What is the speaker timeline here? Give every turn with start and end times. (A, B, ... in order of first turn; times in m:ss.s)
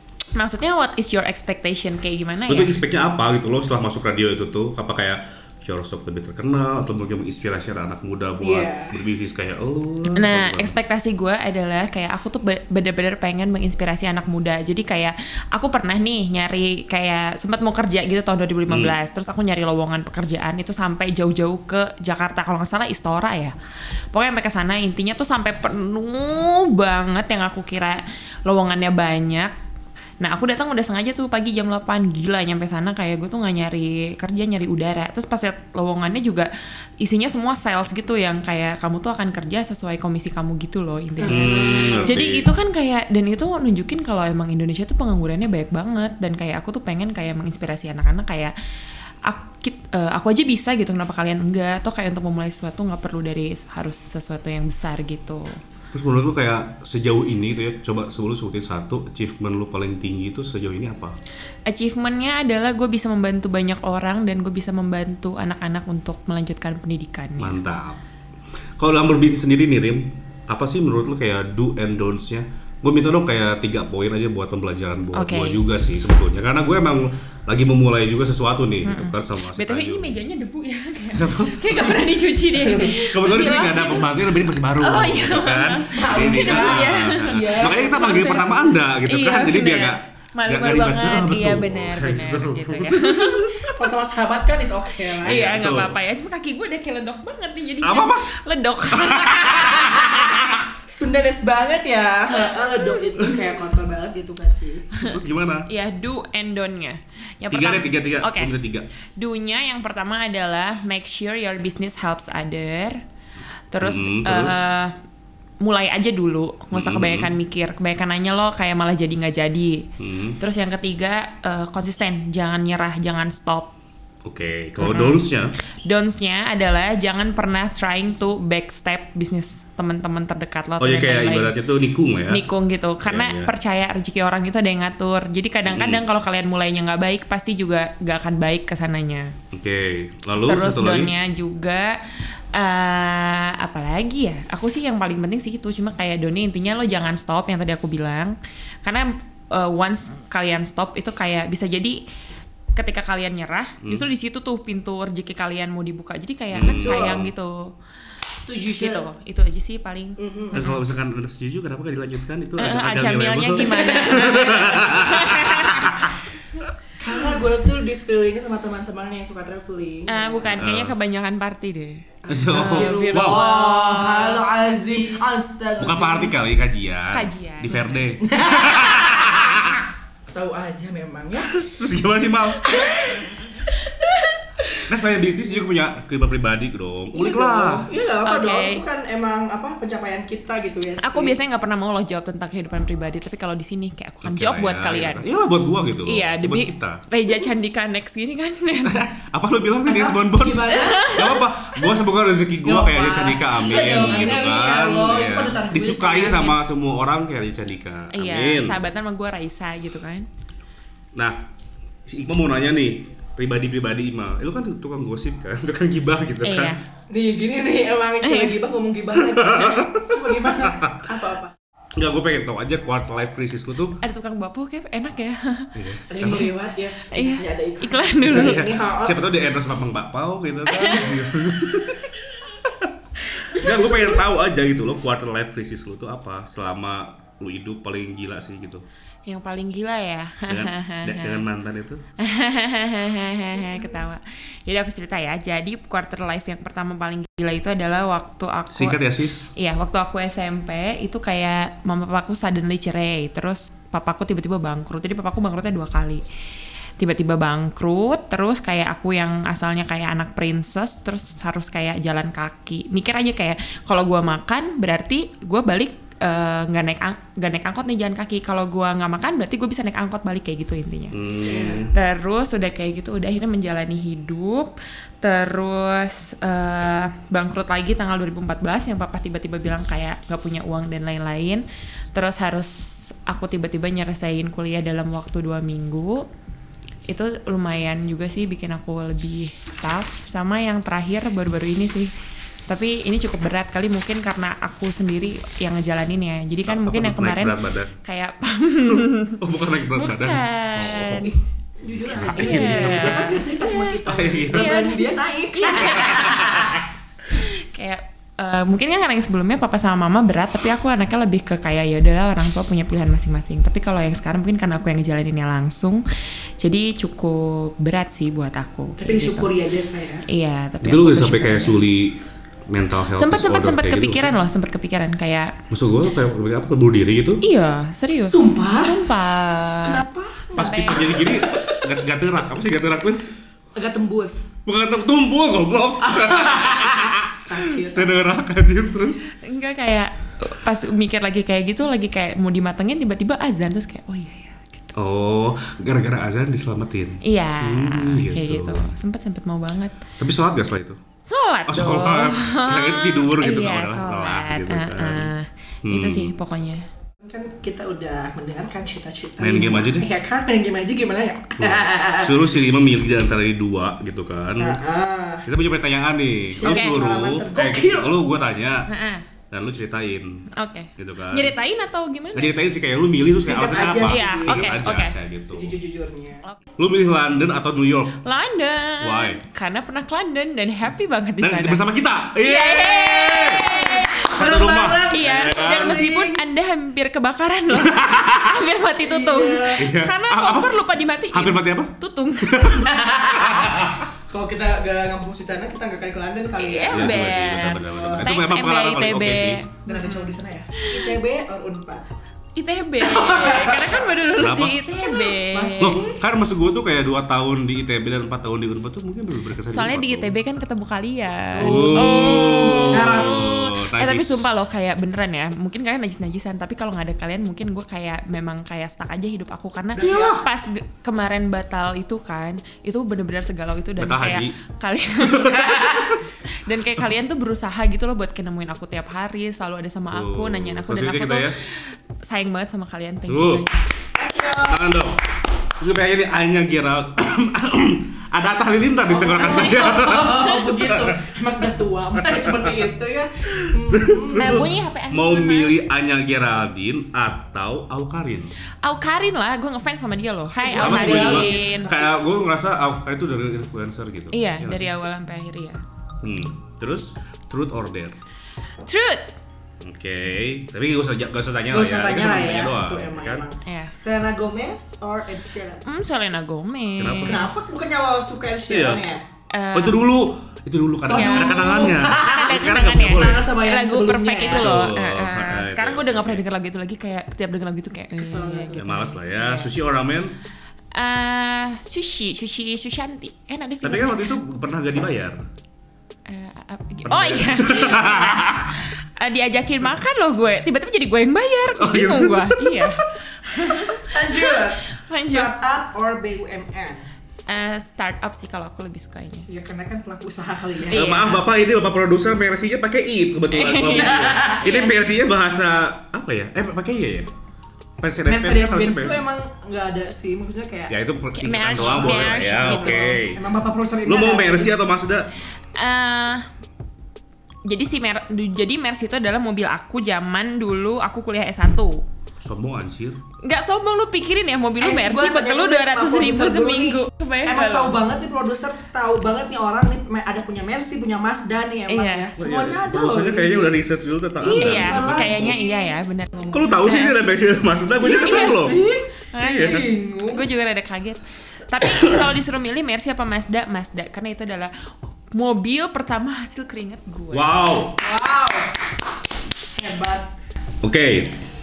0:00.3-0:02.8 A
0:02.5-0:10.7 B
0:08.4-0:09.0 C
0:10.1-0:23.5 A
0:18.7-0:18.9 B
0:24.1-0:29.5 A
0:30.2-0:36.5 A
0:37.0-0:48.5 A
0:41.2-0:42.1 C
0:41.3-0:42.5 B
0:49.3-0:55.6 A
0:55.9-1:01.2 B
1:01.7-1:07.6 A
1:07.4-1:08.0 B
1:08.8-1:20.2 B
1:15.1-1:15.6 A
1:18.8-1:24.2 A
1:21.1-1:22.0 B
1:22.7-1:23.0 C
1:23.0-1:33.7 B
1:24.8-1:33.5 A
1:25.9-1:28.7 C
1:33.6-1:35.5 C
1:35.2-1:40.5 A
1:35.2-1:36.0 B
1:37.8-1:38.3 B
1:38.9-1:40.6 B
1:39.7-1:40.3 C
1:40.8-1:44.9 C
1:42.3-1:43.2 A
1:45.0-1:48.5 A
1:45.0-1:45.7 B
1:47.5-1:48.8 B
1:49.2-1:53.0 A
1:53.7-1:54.9 A
1:53.8-1:54.6 B
1:55.6-1:59.8 A
1:56.7-1:57.3 B
2:00.0-2:00.4 B
2:00.4-2:03.7 A
2:04.2-2:05.5 B
2:04.8-2:05.2 A
2:05.9-2:11.5 A
2:10.8-2:12.4 B
2:12.3-2:19.3 A
2:13.0-2:13.5 B
2:15.6-2:16.0 B
2:19.5-2:21.1 B
2:20.4-2:22.0 A
2:22.5-2:32.0 A
2:32.8-2:37.7 A
2:36.5-2:37.3 B
2:36.6-2:37.2 C
2:38.4-2:39.0 C
2:38.7-2:40.8 A
2:40.2-2:40.6 C
2:40.5-2:46.2 B
2:42.6-2:46.0 A
2:43.7-2:44.8 C
2:47.0-2:50.5 C
2:50.1-2:54.4 A
2:50.6-2:50.9 B
2:52.2-2:56.3 C
2:52.3-2:53.5 B
2:55.8-2:59.8 B
2:57.1-2:58.2 A
2:58.2-2:59.7 C
3:00.3-3:01.7 C
3:01.5-3:02.9 B
3:02.6-3:03.4 C
3:04.9-3:07.9 B
3:07.1-3:11.4 C
3:08.2-3:08.8 A
3:11.0-3:15.3 A
3:14.2-3:17.0 B
3:16.0-3:19.0 A
3:18.8-3:28.8 B
3:19.8-3:21.4 C
3:20.7-3:21.4 A
3:22.6-3:26.6 C
3:28.1-3:30.3 A
3:31.1-3:31.4 B
3:32.0-3:36.8 B
3:36.4-3:36.8 A
3:37.1-3:41.5 C
3:38.2-3:38.5 A
3:39.3-3:41.0 B
3:42.0-3:44.0 B
3:44.0-3:45.7 A
3:45.7-3:46.5 B
3:46.1-3:49.2 C
3:47.1-3:48.7 A
3:48.3-3:52.1 B
3:50.7-3:51.1 A
3:52.6-3:58.8 B
3:53.5-3:54.2 C
3:59.2-4:01.4 A
4:00.5-4:02.0 B
4:02.2-4:09.0 A
4:03.7-4:03.9 C
4:08.7-4:09.5 B
4:09.6-4:16.2 A
4:17.0-4:41.6 A
4:31.1-4:31.9 B
4:31.4-4:31.8 C
4:42.1-4:46.2 A
4:47.1-4:52.1 A
4:52.7-5:01.3 A
4:56.6-4:57.9 B
4:58.9-5:01.3 B
5:01.2-5:06.8 C
5:01.9-5:03.3 B
5:02.2-5:06.7 A
5:04.0-5:04.9 B
5:05.9-5:06.8 B
5:07.3-5:16.0 A
5:16.6-5:19.5 A
5:19.0-5:20.2 C
5:20.3-5:21.8 A
5:20.8-5:22.2 B
5:22.7-5:24.4 B
5:23.2-5:25.6 A
5:25.7-5:27.4 B
5:27.4-5:30.0 A
5:28.2-5:29.0 C
5:29.8-5:31.9 C
5:30.6-5:33.2 B
5:30.6-5:31.1 A
5:33.7-5:34.5 C
5:34.6-5:39.2 B
5:36.0-5:38.2 C
5:39.4-5:45.0 A
5:44.9-5:48.9 B
5:47.2-5:50.0 A
5:50.2-5:51.0 B
5:51.3-5:56.8 A
5:51.7-5:55.3 B
5:55.8-5:56.3 B
5:57.2-6:02.5 C
5:59.4-6:00.1 B
6:01.6-6:04.8 B
6:04.6-6:05.4 C
6:05.4-6:08.9 B
6:06.5-6:08.1 C
6:06.7-6:07.0 A
6:08.9-6:09.2 A
6:09.5-6:11.5 B
6:10.5-6:12.6 A
6:12.3-6:15.8 B
6:13.3-6:14.8 C
6:14.1-6:15.1 A
6:15.5-6:16.4 C
6:16.8-6:18.2 B
6:18.2-6:21.8 A
6:19.0-6:19.4 B
6:21.4-6:26.0 B
6:22.4-6:24.4 A
6:23.8-6:26.4 C
6:25.1-6:33.1 A
6:27.7-6:28.6 B
6:29.0-6:29.9 C
6:29.8-6:30.8 B
6:31.3-6:31.9 B
6:32.4-6:34.0 B
6:32.8-6:38.3 C
6:36.6-6:41.1 A
6:36.9-6:39.6 B
6:39.8-6:42.0 C
6:42.6-6:46.1 A
6:43.0-6:44.1 C
6:44.4-6:44.8 B
6:45.0-6:46.2 C
6:45.8-6:50.3 B
6:49.7-7:13.8 A
6:51.6-6:53.5 C
6:51.6-6:54.5 B
7:00.0-7:00.4 C
7:04.0-7:04.5 B
7:05.2-7:06.2 B
7:10.1-7:11.5 B
7:13.3-7:13.6 B
7:14.2-7:14.9 C
7:14.6-7:21.2 B
7:19.1-7:24.6 C
7:22.2-7:22.7 B
7:23.5-7:28.5 B
7:24.3-7:25.8 A
7:28.8-7:31.9 A
7:30.6-7:32.2 C
7:30.8-7:34.9 B
7:34.3-7:35.8 A
7:36.2-7:38.2 B
7:38.8-7:39.3 A
7:39.8-7:43.4 B
7:41.7-7:45.8 C
7:43.6-7:43.9 A
7:45.8-7:47.4 A
7:47.0-7:47.5 B
7:47.3-7:49.2 C
7:48.7-7:49.0 B
7:49.5-7:50.0 A
7:49.7-7:53.4 B
7:51.1-7:54.8 C
7:51.1-7:59.7 A
7:54.5-7:56.4 B
7:58.1-7:58.8 C
7:58.7-8:00.3 B
8:00.9-8:04.4 A
8:03.8-8:05.4 B
8:06.3-8:15.5 A
8:07.0-8:08.8 B
8:11.8-8:13.0 B
8:13.9-8:17.1 C
8:17.5-8:19.5 A
8:19.5-8:21.1 C
8:20.9-8:21.4 A
8:20.9-8:27.3 B
8:23.5-8:24.9 A
8:23.8-8:24.8 C
8:28.0-8:29.2 B
8:28.3-8:30.9 C
8:30.9-8:33.4 B
8:31.3-8:33.2 A
8:31.8-8:34.7 C
8:34.0-8:35.3 B
8:35.8-8:36.5 A
8:37.6-8:42.0 A
8:42.4-8:43.2 B
8:43.4-8:48.0 A
8:44.8-8:53.8 C
8:51.9-8:52.3 A
8:52.4-8:55.6 B
8:54.4-8:56.7 C
8:54.5-8:57.2 A
8:56.5-8:58.8 B
8:58.0-9:00.4 C
8:58.1-8:58.6 A
8:59.3-9:07.5 A
8:59.4-8:59.7 B
9:07.3-9:08.0 B
9:08.0-9:08.9 C
9:09.7-9:10.3 C
9:10.8-9:11.4 B